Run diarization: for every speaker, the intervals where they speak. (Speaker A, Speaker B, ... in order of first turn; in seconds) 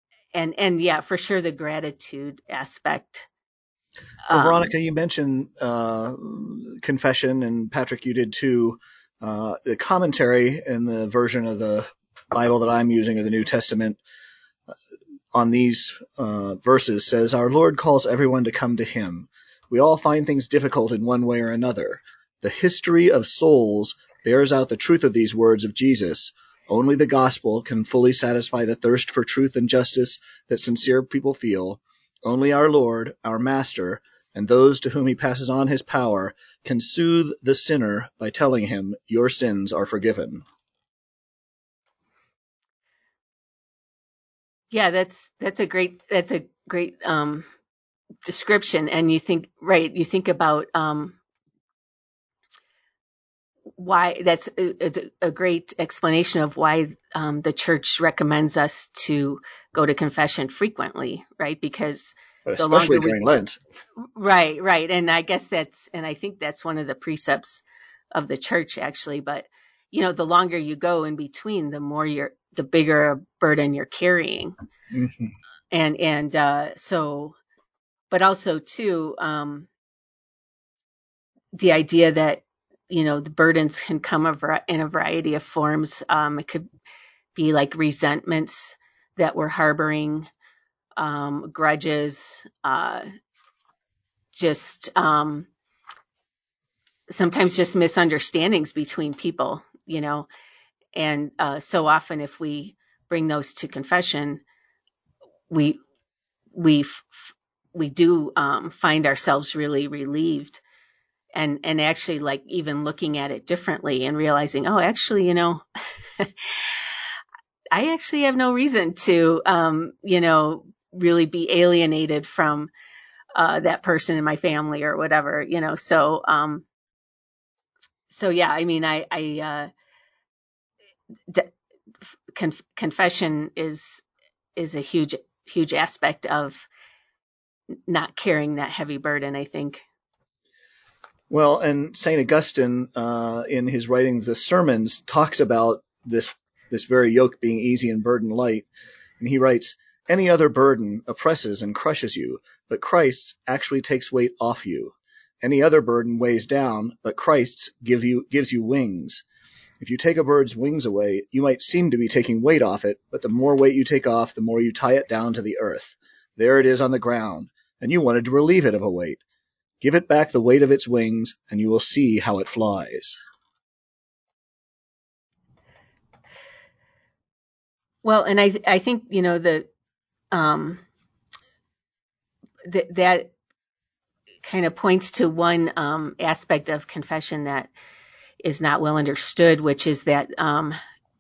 Speaker A: 0.3-3.3, 4.3-4.7, 44.7-47.5, 48.2-51.2, 53.8-63.2, 64.1-74.5, 75.7-77.4, 78.1-79.7, 81.5-86.7, 87.3-90.3, 91.0-93.1, 94.3-95.5, 97.1-100.3, 101.0-104.4, 105.5-105.8, 106.5-110.6, 111.3-115.6, 116.2-116.8, 117.7-122.7, 123.4-126.7, 128.1-129.7, 132.3-134.0, 134.6-136.7, 137.9-139.8, 178.0-179.7, 180.3-180.8, 182.7-183.3, 184.4-187.7, 188.4-190.8
Speaker B: 4.3-14.0, 15.3-40.4, 62.5-63.5, 74.9-75.3, 141.3-148.7, 149.2-159.2, 159.8-169.2, 169.8-173.2